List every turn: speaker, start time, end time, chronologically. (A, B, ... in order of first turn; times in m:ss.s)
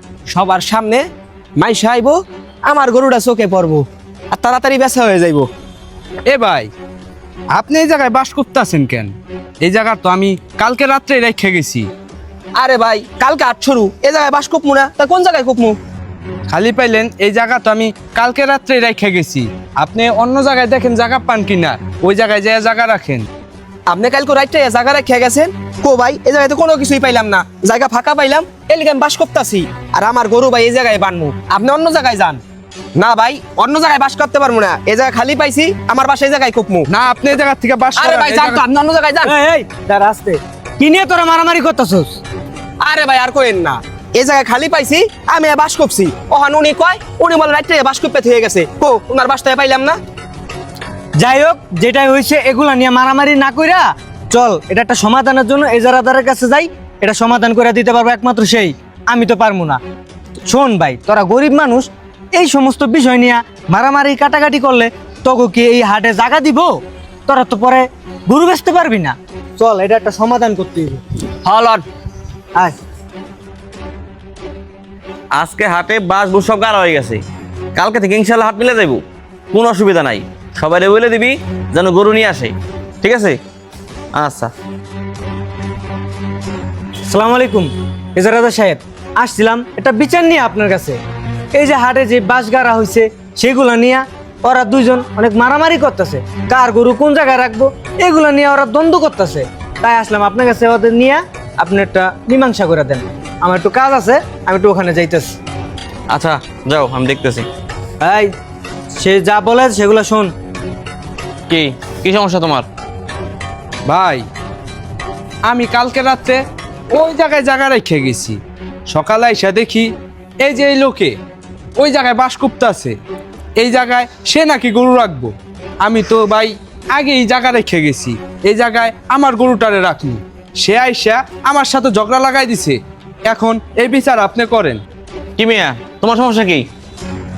0:00.3-0:01.0 A
0:01.6-0:05.5 A
0:06.3-0:06.7 B
0:07.5-0:11.9 B
0:12.6-0:15.8 A
0:16.5-0:23.3 B
0:23.9-0:32.4 A
0:33.0-0:36.9 A
0:36.9-0:38.6 B
0:38.0-0:39.3 A
0:39.2-0:42.2 C
0:42.8-0:50.0 A
0:51.2-0:59.8 C
1:00.4-1:11.0 C
1:11.4-1:11.9 D
1:15.3-1:17.2 D
1:17.8-1:23.4 D
1:24.1-1:24.5 D
1:27.1-1:31.0 C
1:31.5-1:45.3 C
1:46.1-1:47.5 D
1:48.0-1:48.3 C
1:48.9-1:50.3 C
1:51.5-1:52.7 D
1:53.9-1:54.3 B
1:55.5-2:01.2 B
2:01.8-2:03.0 B
2:03.6-2:14.8 B
2:15.4-2:16.7 D